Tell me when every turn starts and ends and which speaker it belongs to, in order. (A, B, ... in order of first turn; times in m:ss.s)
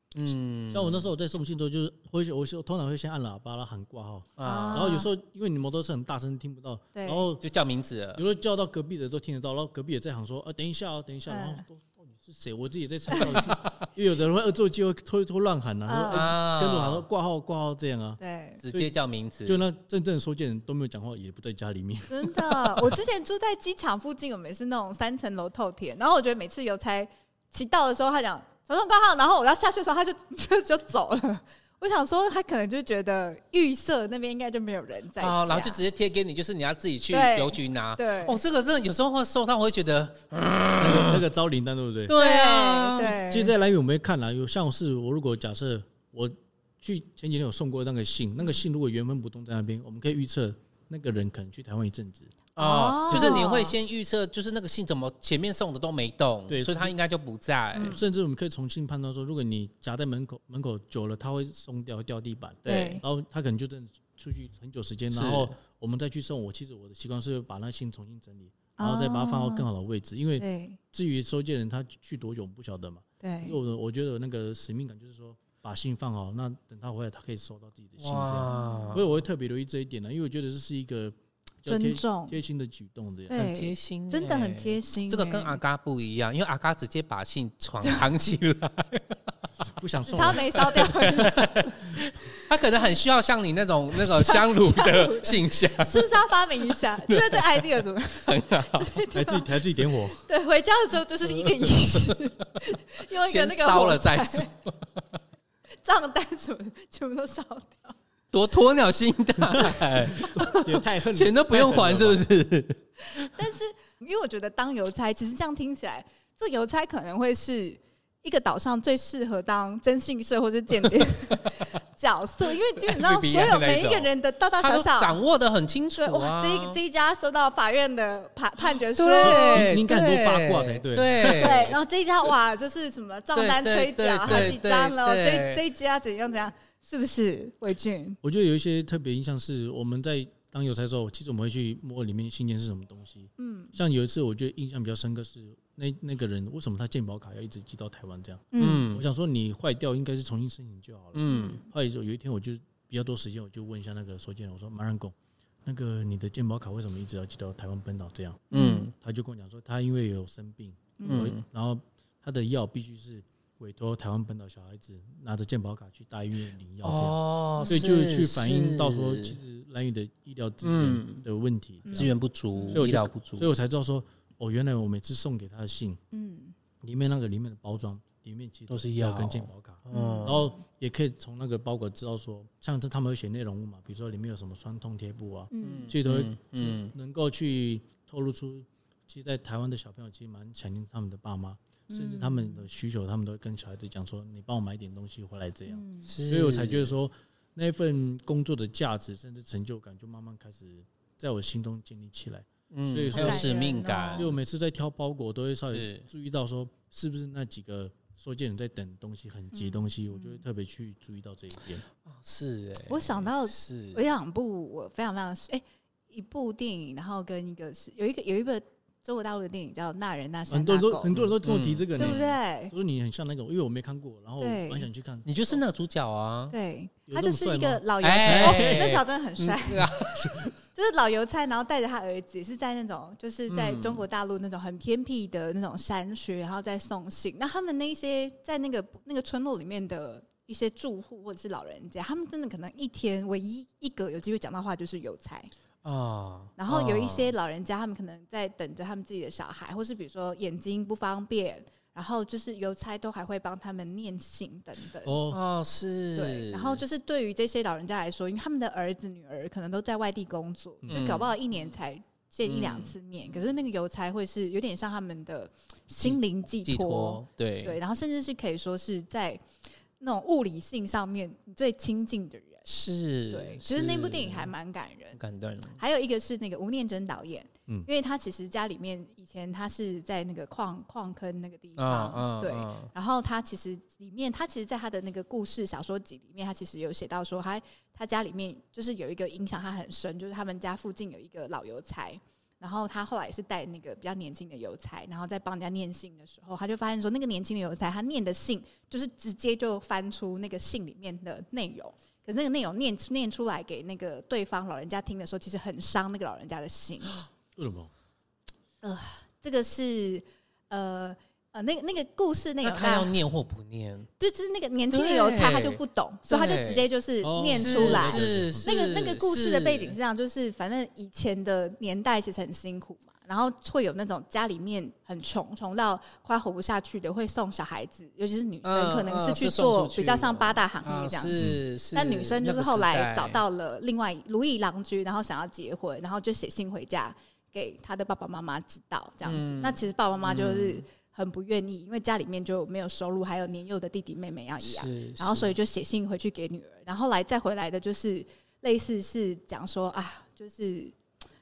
0:00.1-0:01.1 A
0:00.7-0:07.4 B
0:04.4-0:05.0 A
0:04.4-0:05.1 C
0:06.9-0:07.2 C
0:07.4-0:08.2 A
0:08.1-0:18.2 B
0:11.3-0:11.6 C
0:13.1-0:13.4 C
0:15.9-0:16.3 C
0:16.1-0:17.0 A
0:18.2-0:18.6 C
0:18.6-0:19.6 A
0:19.4-0:23.0 B
0:22.1-0:35.8 C
0:35.2-0:41.2 A
0:37.1-0:38.4 C
0:40.8-0:42.1 B
0:42.1-0:43.2 A
0:42.1-0:43.5 C
0:43.0-0:52.3 B
0:52.6-0:58.0 A
0:52.6-0:53.7 C
0:53.1-0:53.4 B
0:56.5-0:56.9 B
0:57.7-0:58.0 C
0:57.8-1:23.4 B
1:02.6-1:03.0 C
1:02.7-1:03.0 A
1:05.1-1:05.5 A
1:08.8-1:09.6 C
1:10.4-1:10.8 C
1:13.2-1:13.6 C
1:18.0-1:19.1 A
1:18.5-1:19.0 C
1:21.6-1:22.4 C
1:23.3-1:25.6 C
1:23.3-1:29.2 A
1:29.6-1:32.0 B
1:30.1-1:31.5 C
1:30.6-1:36.1 A
1:33.9-1:44.5 C
1:36.7-1:39.0 A
1:39.1-1:40.2 B
1:41.4-1:42.3 A
1:43.1-1:45.0 A
1:45.8-1:47.9 C
1:48.3-1:53.3 A
1:49.6-1:52.2 B
1:53.1-2:05.2 C
2:02.8-2:06.8 A
2:06.0-2:09.7 C
2:08.8-2:11.8 A
2:09.2-2:11.6 B
2:11.2-2:18.2 C
2:13.3-2:15.6 A
2:14.3-2:14.6 B
2:18.2-2:52.1 B
2:23.4-2:23.8 C
2:28.5-2:28.9 C
2:28.6-2:29.0 A
2:31.1-2:31.6 A
2:31.3-2:31.7 C
2:38.5-2:38.9 C
2:38.5-2:38.9 A
2:41.0-2:41.3 C
2:41.0-2:41.4 A
2:46.8-2:49.4 A
2:47.6-2:47.8 C
2:50.6-2:51.2 A
2:51.8-2:52.8 C
2:51.9-2:53.5 A
2:52.7-2:56.0 B
2:56.1-2:56.5 C
2:56.8-3:31.8 B
2:58.7-3:00.4 A
2:59.9-3:00.6 C
3:05.5-3:05.9 C
3:05.6-3:06.9 A
3:11.9-3:12.7 C
3:15.7-3:16.1 C
3:16.0-3:16.9 A
3:22.7-3:24.3 A
3:23.1-3:24.3 C
3:25.7-3:26.1 A
3:29.5-3:30.4 C
3:32.0-3:34.0 A
3:32.8-3:41.1 C
3:40.5-3:45.6 B
3:41.1-3:42.3 A
3:42.0-3:42.7 C
3:44.4-3:44.9 C
3:45.2-3:46.5 A
3:46.5-4:05.5 C
3:47.1-3:49.0 B
3:48.0-3:50.5 A
3:53.5-3:54.0 A
4:05.8-4:07.3 A
4:06.6-4:15.2 C
4:15.0-4:15.4 B
4:15.3-4:16.8 A
4:16.1-4:29.4 C
4:20.9-4:21.3 A
4:22.4-4:22.9 A
4:26.0-4:27.8 A
4:30.0-4:32.6 C
4:32.6-4:34.5 A
4:33.3-4:35.2 C
4:35.1-4:35.8 A
4:35.8-5:07.2 C
4:41.8-4:42.9 A
5:07.5-5:07.9 B
5:08.8-5:13.1 C
5:12.6-5:14.1 A
5:14.2-5:31.4 C
5:14.9-5:16.8 A
5:17.2-5:18.7 B
5:17.5-5:20.0 A
5:28.6-5:33.4 A
5:31.4-5:31.6 B
5:31.9-5:50.9 C
5:39.2-5:40.8 A
5:44.6-5:45.6 A